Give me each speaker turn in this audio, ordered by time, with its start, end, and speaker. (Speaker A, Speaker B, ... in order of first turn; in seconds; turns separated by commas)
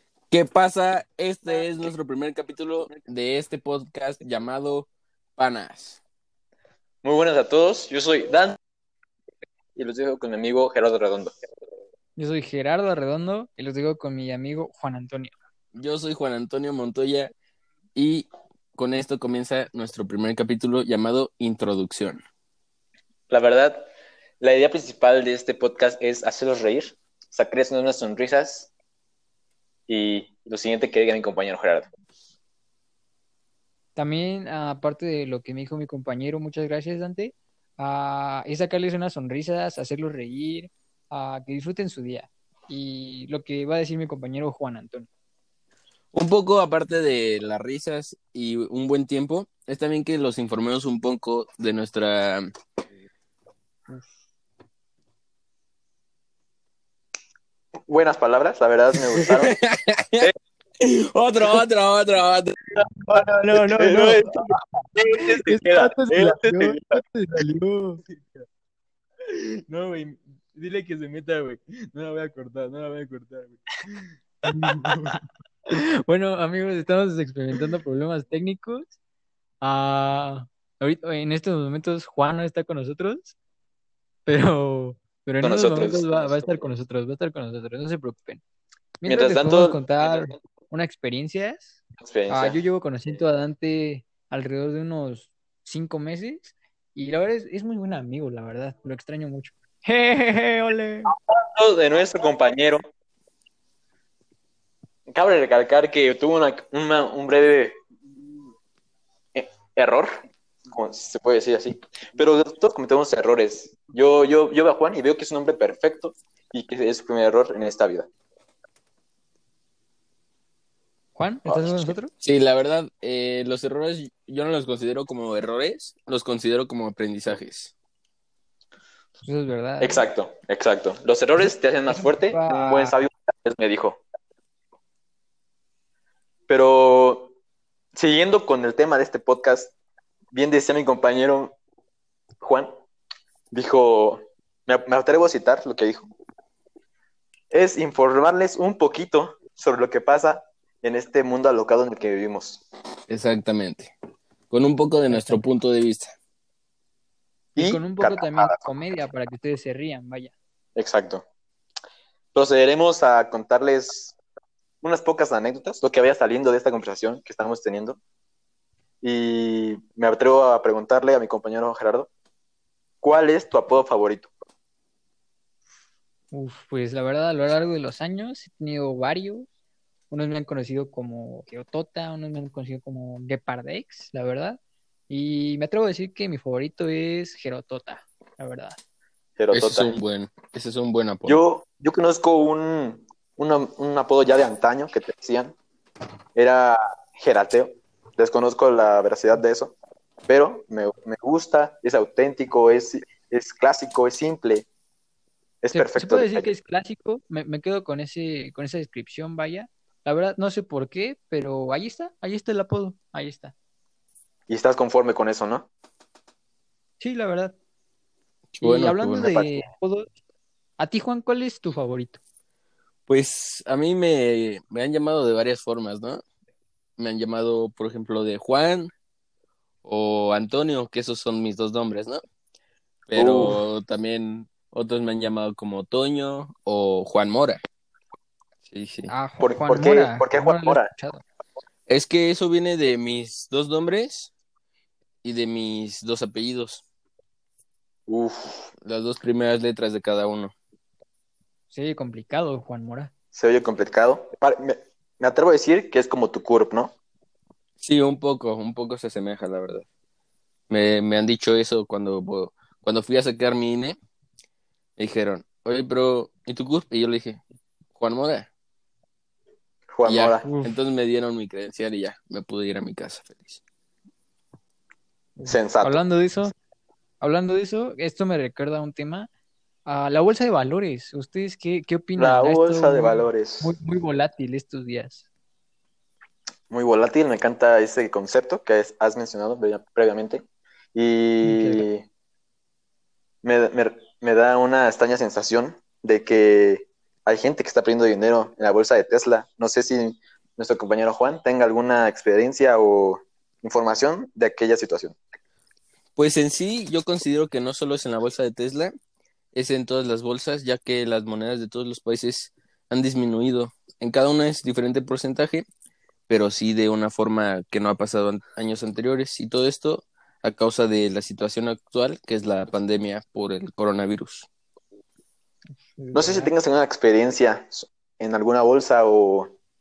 Speaker A: 0.3-6.0, Speaker B: 7.0-8.6, Speaker B: 9.8-11.3, Speaker C: 12.2-15.3, Speaker A: 15.7-17.3, Speaker A: 17.9-22.2, Speaker B: 23.3-23.9, Speaker B: 24.4-28.7, Speaker B: 29.9-31.9, Speaker C: 34.0-45.1, Speaker A: 46.1-52.4, Speaker B: 57.9-59.5, Speaker A: 59.0-60.3, Speaker A: 60.8-62.5, Speaker C: 62.8-64.6, Speaker B: 63.1-67.0, Speaker C: 65.2-68.0, Speaker B: 68.1-68.4, Speaker B: 69.2-75.2, Speaker C: 74.5-75.2, Speaker C: 76.0-78.9, Speaker C: 79.6-83.3, Speaker C: 84.2-88.4, Speaker B: 85.4-86.7, Speaker C: 89.0-91.8, Speaker B: 89.0-90.3, Speaker B: 92.0-92.6, Speaker C: 92.3-101.1, Speaker B: 101.1-102.8, Speaker B: 105.1-107.7, Speaker B: 109.3-110.1, Speaker B: 110.7-118.1, Speaker C: 121.1-122.1, Speaker B: 121.4-121.9, Speaker A: 122.2-127.7, Speaker C: 129.2-130.0, Speaker B: 129.8-134.0, Speaker C: 131.4-133.0, Speaker B: 136.5-137.3, Speaker B: 137.9-139.7, Speaker B: 140.3-141.5, Speaker B: 142.4-142.7, Speaker B: 143.5-146.1, Speaker B: 147.5-152.6, Speaker A: 153.1-153.9, Speaker A: 154.5-156.1, Speaker C: 155.1-155.5, Speaker B: 157.6-158.8, Speaker C: 157.6-160.3, Speaker B: 160.8-161.2, Speaker B: 162.3-164.1, Speaker B: 164.8-168.0, Speaker B: 169.0-172.1, Speaker B: 173.0-174.3, Speaker C: 176.3-179.5, Speaker C: 180.1-188.8, Speaker B: 189.4-190.0, Speaker A: 189.5-191.4, Speaker B: 191.2-195.6, Speaker B: 196.3-199.7, Speaker B: 200.3-204.7, Speaker B: 205.6-206.5, Speaker C: 205.7-213.5, Speaker B: 214.5-215.7, Speaker C: 217.0-217.5, Speaker A: 218.5-219.3, Speaker C: 218.6-220.1, Speaker B: 219.2-219.6, Speaker C: 220.8-222.2, Speaker A: 223.1-226.2, Speaker A: 227.0-228.9, Speaker A: 229.8-232.2, Speaker A: 233.1-237.6, Speaker B: 233.1-233.6, Speaker A: 238.7-239.1, Speaker C: 239.1-241.2, Speaker B: 239.4-240.9, Speaker A: 241.9-244.3, Speaker A: 245.2-246.8, Speaker B: 248.1-248.7, Speaker A: 248.8-250.5, Speaker C: 251.7-253.1, Speaker B: 253.3-256.9, Speaker A: 257.8-259.9, Speaker A: 260.7-264.0, Speaker A: 265.0-267.4, Speaker A: 268.0-268.5, Speaker B: 269.9-270.5, Speaker A: 270.0-273.6, Speaker C: 270.4-270.8, Speaker C: 275.4-276.5, Speaker B: 275.4-276.0, Speaker C: 277.2-279.3, Speaker C: 279.8-285.2, Speaker B: 282.1-283.7, Speaker B: 286.7-290.4, Speaker B: 290.9-292.1, Speaker C: 291.4-291.9, Speaker B: 293.4-305.1, Speaker A: 306.1-308.9, Speaker A: 309.5-315.6, Speaker A: 316.3-324.5, Speaker C: 325.9-326.5, Speaker B: 326.1-329.6